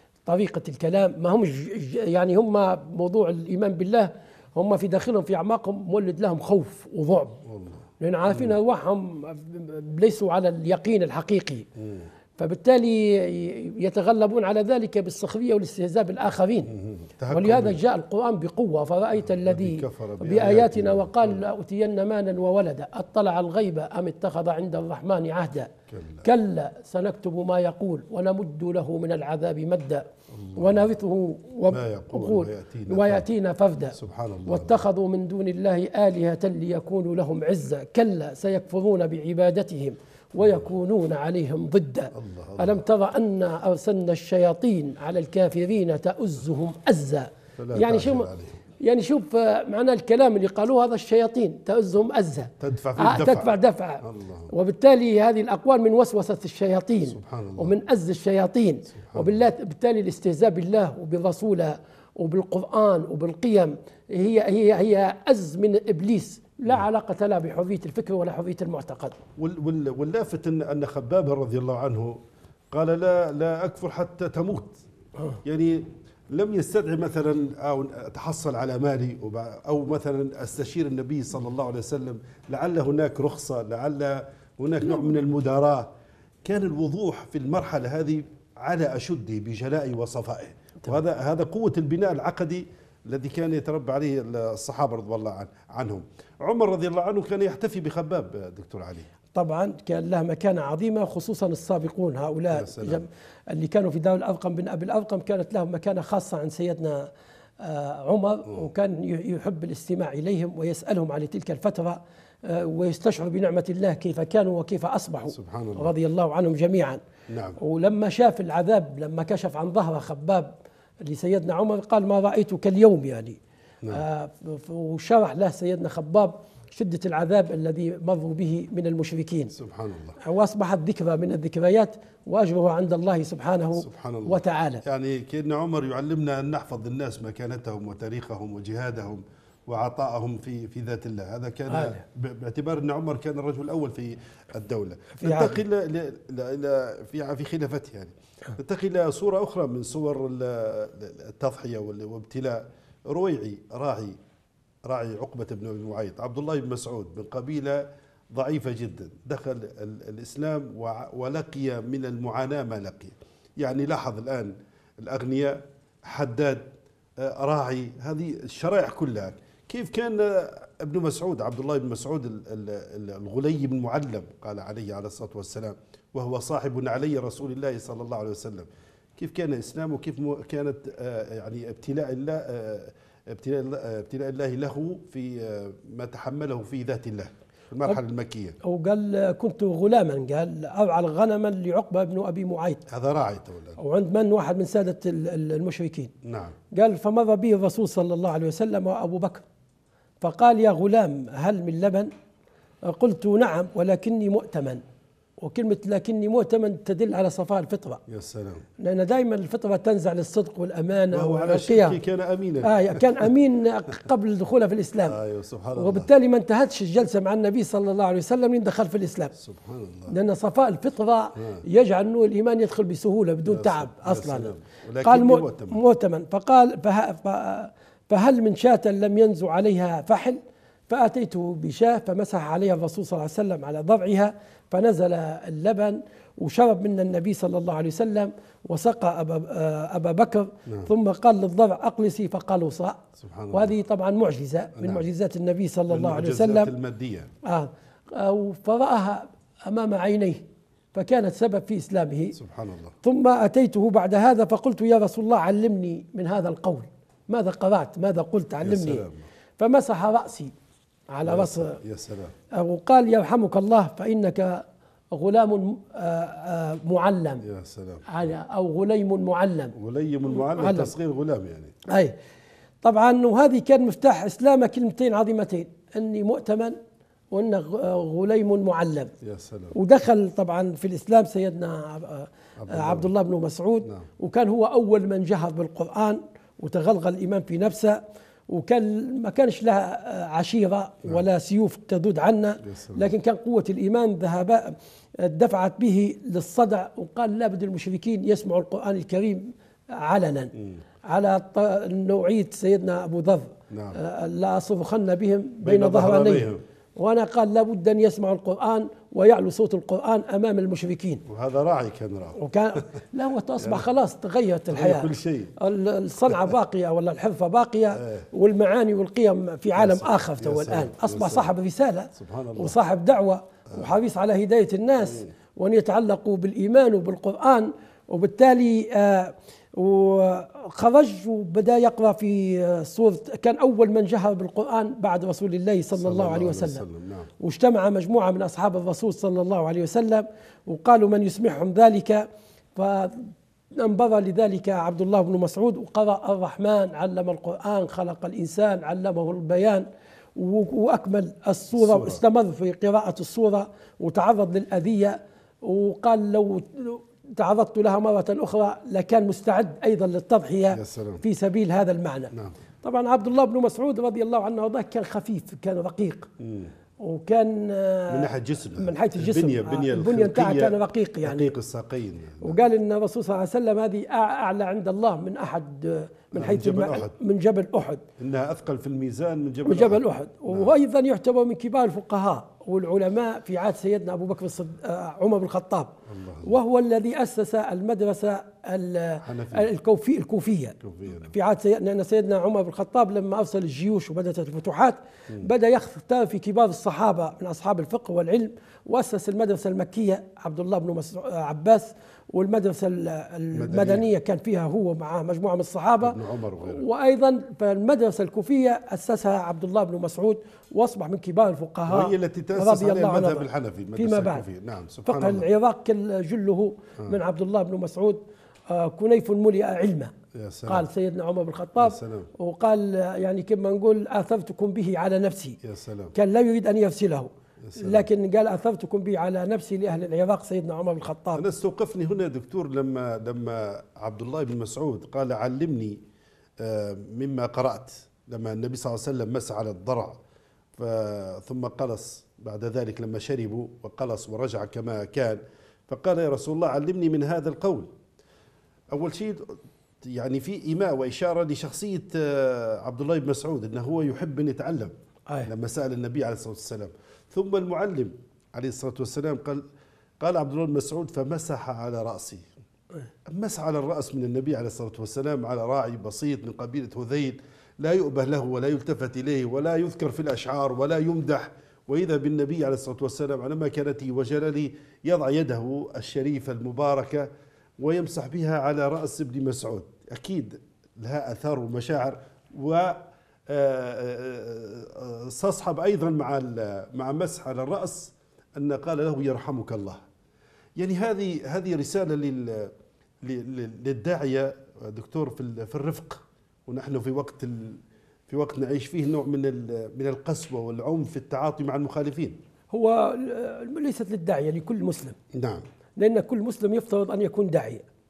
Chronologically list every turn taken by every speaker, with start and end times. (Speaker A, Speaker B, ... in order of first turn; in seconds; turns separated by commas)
Speaker A: 0.2-7.4, Speaker B: 7.4-8.6, Speaker A: 8.0-11.7, Speaker B: 11.8-12.1, Speaker A: 12.4-16.7, Speaker B: 16.7-17.8, Speaker A: 17.3-25.7, Speaker B: 19.2-21.4, Speaker B: 25.9-26.2, Speaker A: 26.2-69.2, Speaker B: 30.3-30.9, Speaker B: 31.7-33.3, Speaker B: 33.9-34.8, Speaker B: 42.1-42.8, Speaker B: 47.6-48.6, Speaker B: 52.6-54.5, Speaker B: 57.1-57.8, Speaker B: 58.9-59.4, Speaker B: 69.4-72.2, Speaker B: 72.7-74.8, Speaker B: 75.4-85.9, Speaker B: 86.4-99.1, Speaker A: 99.3-107.1, Speaker B: 102.5-103.0, Speaker A: 107.6-117.0, Speaker B: 115.3-115.9, Speaker B: 117.3-117.6, Speaker A: 117.6-120.5, Speaker A: 121.0-129.5, Speaker B: 129.5-130.2, Speaker A: 130.2-134.8, Speaker B: 133.8-154.2, Speaker A: 141.7-142.0, Speaker A: 145.2-145.6, Speaker B: 154.8-166.7, Speaker B: 167.2-188.6, Speaker A: 188.6-192.8, Speaker B: 192.9-193.8, Speaker A: 193.8-196.1, Speaker B: 196.2-196.6, Speaker A: 196.7-199.4, Speaker A: 200.2-202.1, Speaker A: 202.8-204.8, Speaker A: 205.4-208.0, Speaker B: 208.1-208.6, Speaker A: 208.8-212.0, Speaker B: 211.1-213.3, Speaker A: 212.6-215.2, Speaker B: 215.1-216.1, Speaker A: 215.8-219.3, Speaker B: 219.3-220.1, Speaker A: 220.1-224.5, Speaker B: 221.3-221.6, Speaker B: 223.4-225.8, Speaker A: 225.0-243.0, Speaker B: 243.2-243.7, Speaker A: 243.5-246.7, Speaker B: 244.8-245.0, Speaker B: 245.9-247.3, Speaker A: 247.4-250.4, Speaker A: 250.9-252.3, Speaker B: 252.3-252.9, Speaker A: 253.0-259.0, Speaker B: 258.6-259.3, Speaker A: 259.6-260.5, Speaker A: 261.1-261.8, Speaker B: 261.2-262.3, Speaker A: 262.5-267.4, Speaker B: 267.4-268.1, Speaker A: 268.1-269.7, Speaker B: 269.7-271.7, Speaker A: 270.5-270.9, Speaker A: 272.8-276.8, Speaker A: 277.3-279.1, Speaker B: 279.2-279.7, Speaker A: 279.7-300.5, Speaker B: 282.6-283.1, Speaker B: 292.6-293.1, Speaker A: 301.1-311.2, Speaker B: 303.7-304.0, Speaker B: 305.6-306.6, Speaker B: 311.2-312.4, Speaker A: 312.4-336.8, Speaker B: 313.6-313.9, Speaker B: 314.7-315.5, Speaker B: 318.0-318.2, Speaker B: 319.7-321.5, Speaker B: 322.1-322.8, Speaker B: 325.0-325.3, Speaker B: 336.0-337.3, Speaker A: 337.4-342.2, Speaker A: 342.8-366.3, Speaker B: 351.7-352.2, Speaker B: 360.7-361.2, Speaker B: 362.3-362.6, Speaker B: 366.4-366.7, Speaker A: 367.0-371.5, Speaker B: 368.1-372.6, Speaker A: 372.4-378.0, Speaker B: 376.3-377.1, Speaker B: 378.2-380.7, Speaker A: 379.6-414.4, Speaker B: 386.1-386.5, Speaker B: 389.2-389.7, Speaker B: 390.8-391.3, Speaker B: 403.5-404.1, Speaker B: 406.0-406.8, Speaker B: 411.9-415.4, Speaker A: 415.1-420.1, Speaker B: 420.3-420.9, Speaker A: 420.6-425.6, Speaker B: 421.8-422.3, Speaker B: 425.6-426.1, Speaker A: 426.1-431.4, Speaker B: 427.6-428.1, Speaker B: 431.3-436.0, Speaker B: 436.6-440.2, Speaker B: 440.8-447.9, Speaker B: 448.9-454.9, Speaker B: 455.4-459.6, Speaker B: 460.2-462.5, Speaker B: 463.3-477.3, Speaker B: 477.8-490.0, Speaker B: 490.8-502.4, Speaker A: 502.7-505.2, Speaker B: 505.3-505.6, Speaker A: 506.0-507.8